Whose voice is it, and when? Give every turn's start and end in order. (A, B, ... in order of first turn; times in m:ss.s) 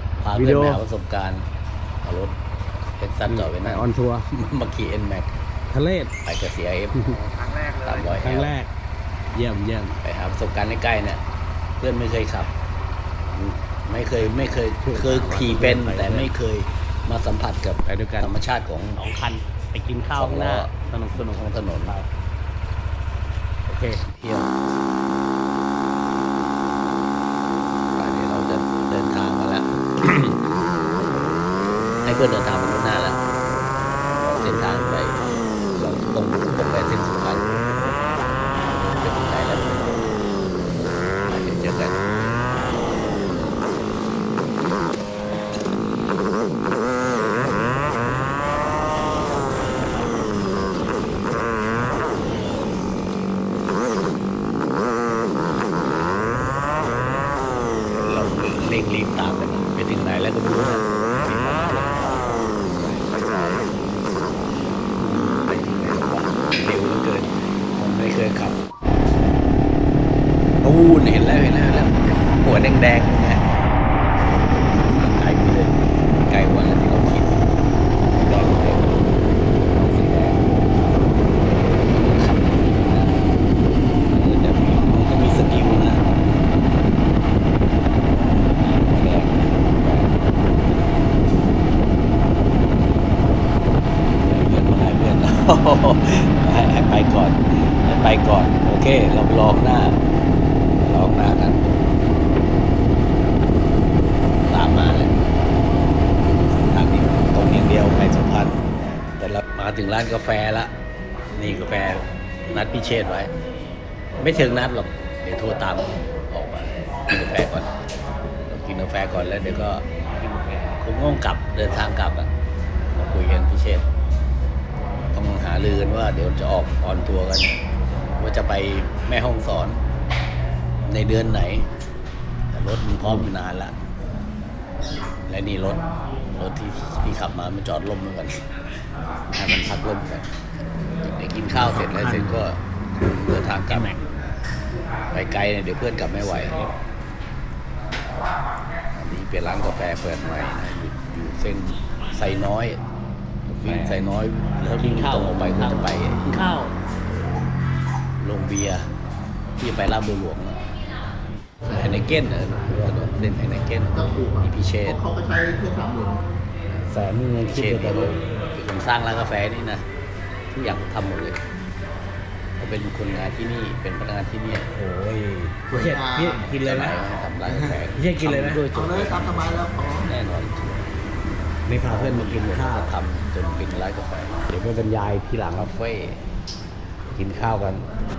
0:00.2-0:01.4 A
0:00.4-0:00.8 B
0:02.0-0:02.4 A
0:03.0-0:05.3 A
0:03.3-0:04.3 B
0:05.7-0:06.1 B
0:06.2-0:07.2 A
0:07.0-0:08.7 B
0:07.8-0:08.6 A
0:09.3-0:10.0 B
0:10.0-0:11.2 A
0:11.8-0:12.5 A
0:13.3-0:19.0 A
0:14.7-0:16.3 B
0:17.8-0:18.3 B
0:19.0-0:22.1 B
0:20.1-0:22.0 A
0:23.7-0:24.0 B
0:24.0-0:24.5 A
0:27.9-0:30.4 A
0:32.0-0:33.2 A
0:34.2-0:35.2 A
0:35.7-0:40.0 A
0:41.2-0:42.0 A
0:57.9-1:04.2 A
1:04.8-1:08.6 A
1:10.6-1:13.6 A
1:14.3-1:17.4 A
1:18.1-1:18.9 A
1:19.7-1:20.5 A
1:21.7-1:23.2 A
1:24.1-1:26.0 A
1:28.6-1:30.8 A
1:34.2-1:40.0 A
1:40.8-1:41.7 A
1:44.4-1:45.4 A
1:46.2-1:48.6 A
1:49.2-1:50.7 A
1:51.3-1:53.3 A
1:54.2-1:57.7 A
1:58.4-1:59.8 A
2:00.8-2:02.3 A
2:02.9-2:03.8 A
2:05.1-2:07.6 A
2:08.2-2:09.8 A
2:10.8-2:11.7 A
2:12.5-2:13.9 A
2:13.0-2:13.3 B
2:15.2-2:18.4 A
2:19.3-2:20.3 A
2:21.0-2:24.0 A
2:21.6-2:22.4 B
2:23.7-2:24.0 B
2:25.1-2:26.6 A
2:26.2-2:26.7 B
2:28.9-2:32.8 A
2:33.5-2:34.0 B
2:33.6-2:36.3 A
2:34.7-2:36.8 B
2:37.0-2:37.4 A
2:38.2-2:38.9 A
2:39.6-2:40.6 A
2:41.7-2:45.0 A
2:43.9-2:46.2 C
2:46.8-2:48.2 B
2:47.4-2:49.8 A
2:50.5-2:51.4 A
2:52.6-2:54.7 A
2:54.7-2:57.0 B
2:55.7-2:56.5 C
2:56.6-3:00.9 A
2:57.8-2:59.1 B
2:58.7-3:00.1 C
3:01.6-3:02.9 B
3:01.8-3:04.5 A
3:04.5-3:05.7 B
3:05.4-3:06.2 A
3:07.2-3:07.8 A
3:07.3-3:07.8 B